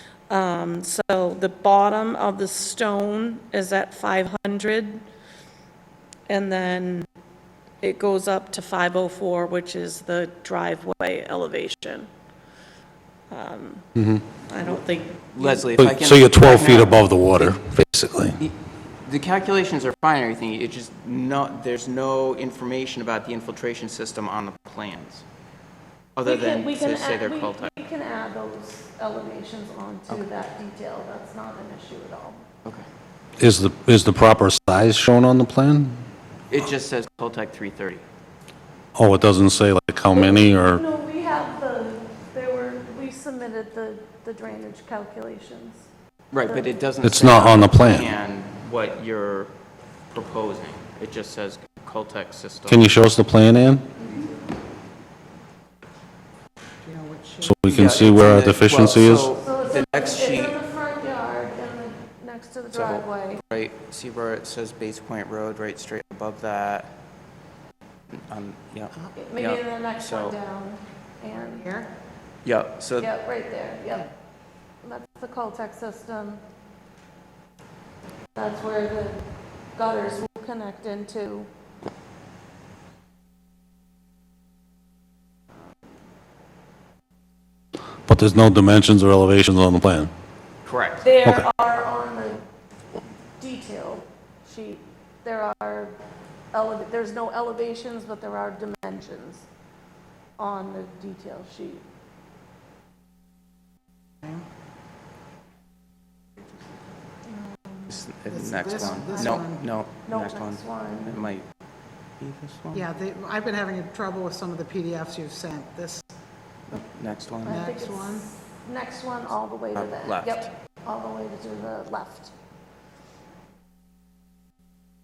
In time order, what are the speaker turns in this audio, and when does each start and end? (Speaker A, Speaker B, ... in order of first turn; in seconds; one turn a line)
Speaker A: 0.3-5.0
Speaker A: 6.3-7.1
Speaker A: 7.8-12.1
Speaker A: 13.3-13.9
Speaker B: 14.0-14.2
Speaker A: 14.4-15.7
Speaker C: 15.3-17.6
Speaker B: 15.8-18.4
Speaker C: 18.4-25.2
Speaker C: 26.2-27.7
Speaker A: 26.2-32.5
Speaker B: 33.4-36.0
Speaker C: 36.5-38.0
Speaker B: 39.0-40.8
Speaker A: 40.1-45.9
Speaker C: 46.3-49.5
Speaker A: 46.5-46.8
Speaker B: 47.0-48.1
Speaker C: 50.1-53.0
Speaker B: 52.7-53.9
Speaker A: 54.0-54.3
Speaker D: 56.8-57.6
Speaker B: 57.4-59.3
Speaker C: 57.7-60.5
Speaker A: 59.4-63.4
Speaker C: 62.7-67.0
Speaker C: 68.1-70.4
Speaker A: 69.2-71.7
Speaker D: 71.3-71.9
Speaker C: 72.4-73.1
Speaker A: 73.0-74.1
Speaker A: 74.8-76.4
Speaker A: 78.3-81.5
Speaker B: 88.1-90.1
Speaker C: 90.7-91.1
Speaker A: 91.0-92.4
Speaker A: 93.4-96.0
Speaker A: 96.5-99.5
Speaker A: 100.4-101.8
Speaker A: 107.4-107.9
Speaker C: 107.9-111.5
Speaker D: 108.3-109.7
Speaker A: 108.8-111.2
Speaker C: 112.2-112.9
Speaker D: 112.7-116.1
Speaker C: 116.7-117.7
Speaker D: 117.5-118.3
Speaker A: 117.5-122.3
Speaker C: 119.8-120.5